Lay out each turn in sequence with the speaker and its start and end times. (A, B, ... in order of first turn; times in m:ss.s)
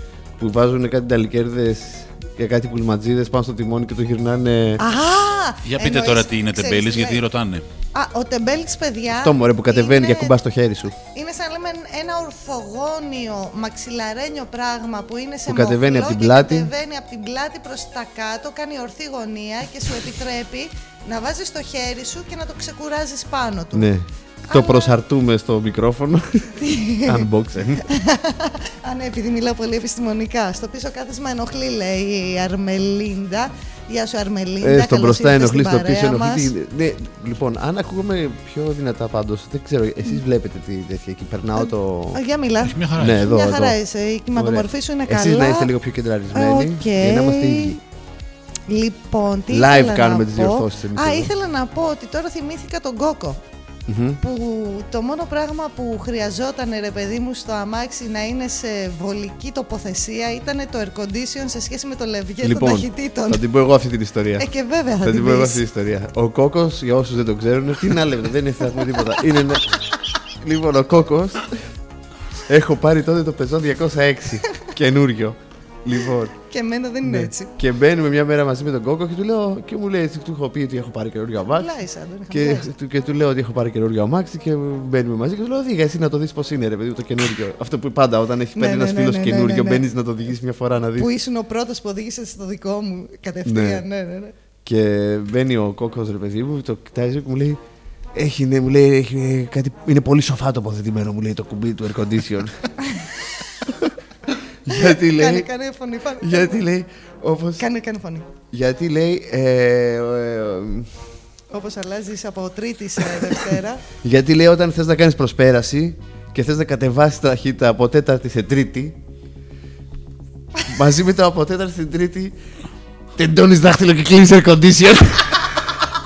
0:00.4-0:04.8 A
0:04.8-0:07.2 B
0:05.6-0:07.6 C
0:07.9-0:10.3 B
0:09.1-0:10.9 A
0:11.0-0:23.9 B
0:15.5-0:16.7 A
0:23.7-0:26.5 A
0:24.5-0:25.0 B
0:26.6-0:27.2 B
0:27.0-0:27.8 A
0:27.8-0:36.5 B
0:34.6-0:42.2 A
0:41.6-0:45.7 B
0:42.6-0:43.2 C
0:43.0-0:43.8 A
0:44.3-0:47.8 A
0:46.3-0:47.8 B
0:48.7-0:53.4 B
0:49.5-0:51.3 A
0:53.9-0:54.2 A
0:54.2-1:03.4 B
1:02.4-1:04.4 A
1:04.4-1:05.6 B
1:05.0-1:09.7 A
1:10.4-1:11.6 A
1:12.5-1:16.3 A
1:16.5-1:17.5 B
1:17.0-1:21.7 A
1:21.5-1:22.7 B
1:22.3-1:31.1 A
1:28.6-1:29.8 B
1:31.0-1:34.3 B
1:33.4-1:33.8 A
1:34.6-1:37.6 A
1:38.1-1:42.6 A
1:44.6-1:45.5 A
1:44.7-1:46.6 B
1:46.2-1:47.6 A
1:47.6-1:48.3 B
1:48.5-1:50.9 A
1:51.5-1:53.8 B
1:54.0-1:59.0 A
2:00.7-2:02.3 A
2:03.2-2:05.4 A